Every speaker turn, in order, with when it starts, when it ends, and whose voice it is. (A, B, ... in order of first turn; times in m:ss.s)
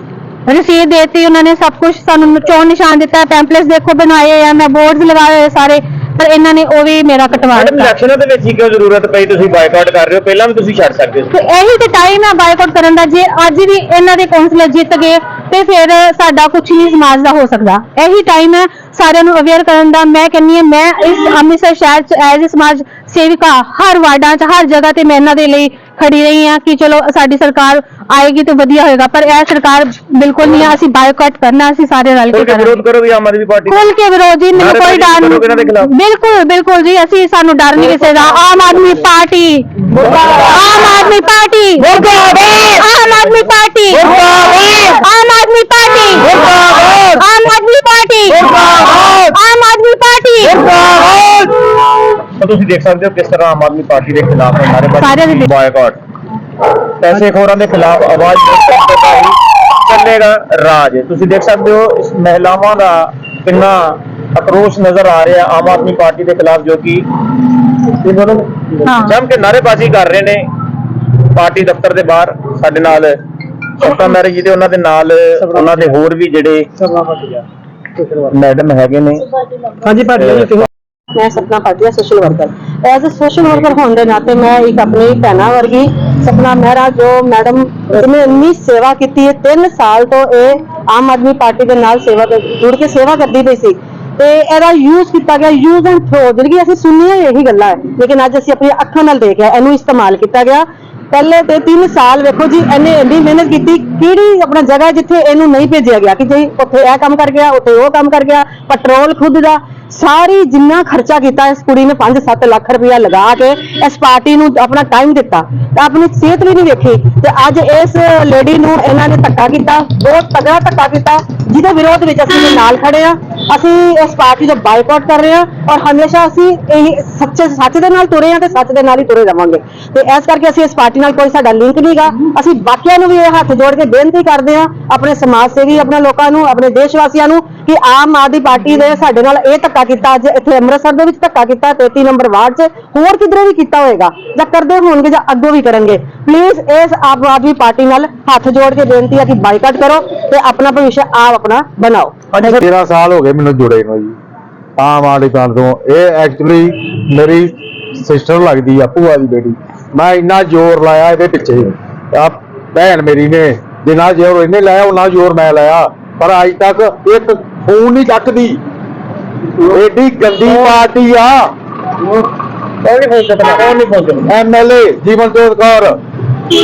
0:00.5-0:07.9 A
0:07.5-0:11.3 B
0:11.3-0:32.8 A
0:32.3-0:33.8 B
0:33.7-0:44.1 A
0:34.6-0:35.9 B
0:44.8-0:50.6 A
0:52.4-0:56.0 B
0:55.0-0:55.5 A
0:57.0-1:07.1 B
1:07.9-1:10.5 B
1:08.9-1:09.2 A
1:11.3-1:13.2 B
1:13.8-1:16.7 B
1:18.3-1:19.2 B
1:20.1-1:20.7 B
1:21.2-2:32.2 C
2:32.3-2:32.7 B
2:32.5-2:34.2 D
2:34.8-2:48.6 D
2:49.7-2:51.5 D
2:50.5-2:50.8 B
2:52.8-2:54.3 B
2:54.3-2:56.0 D